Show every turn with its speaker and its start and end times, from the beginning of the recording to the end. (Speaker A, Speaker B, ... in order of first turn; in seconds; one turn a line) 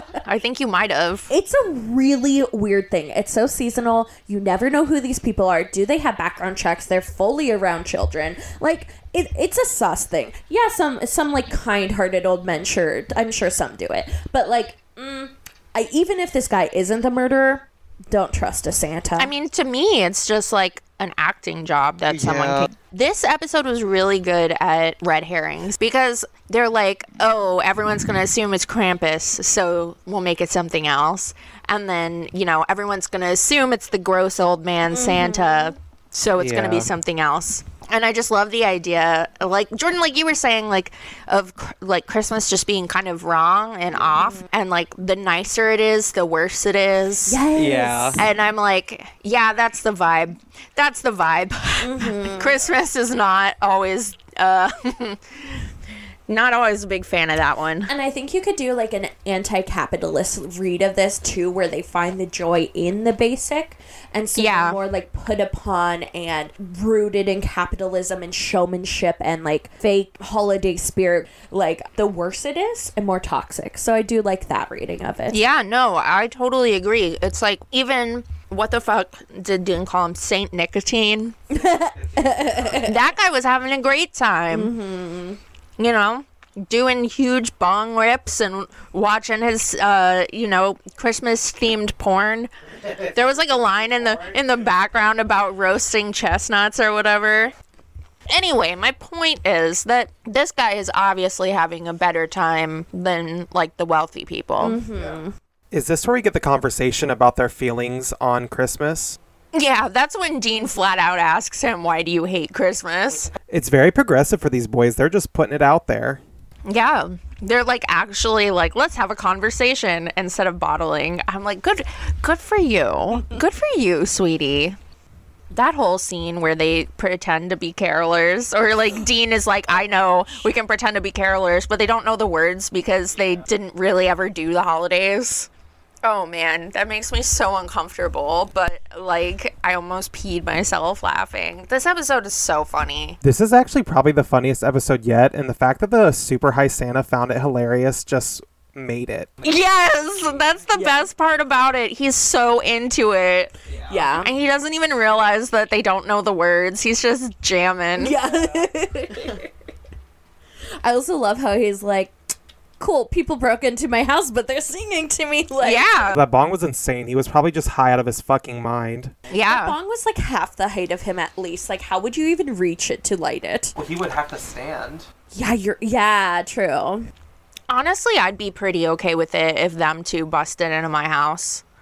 Speaker A: 0.2-1.3
Speaker B: 1.3-19.3
Speaker A: 19.2-47.4
Speaker C: 22.1-22.7
Speaker B: 34.9-35.8
Speaker C: 36.4-36.9
Speaker B: 44.0-44.5
Speaker B: 47.3-48.3
Speaker C: 47.5-48.2
Speaker A: 48.2-55.5
Speaker B: 51.8-52.6
Speaker A: 56.3-57.9
Speaker B: 57.9-75.4
Speaker A: 64.3-64.8
Speaker A: 75.3-81.4
Speaker B: 81.5-83.0
Speaker C: 82.1-82.7
Speaker A: 82.7-84.7
Speaker B: 84.5-85.4
Speaker A: 85.8-97.5
Speaker C: 93.7-94.4
Speaker A: 98.3-104.8
Speaker B: 104.6-105.4
Speaker C: 105.7-109.2
Speaker A: 109.5-113.3
Speaker C: 113.5-116.2
Speaker A: 116.7-124.8
Speaker A: 125.5-135.5
Speaker A: 136.0-143.2
Speaker C: 143.2-149.4
Speaker A: 149.4-153.5
Speaker B: 150.7-151.1
Speaker C: 153.7-154.1
Speaker B: 153.9-154.3
Speaker A: 154.2-158.2
Speaker B: 158.0-159.5
Speaker B: 160.8-162.2
Speaker B: 162.8-166.1
Speaker A: 165.6-166.2
Speaker C: 166.1-169.1
Speaker A: 169.3-169.8
Speaker B: 169.5-173.7
Speaker C: 173.8-175.1
Speaker B: 175.3-177.1
Speaker A: 177.7-181.6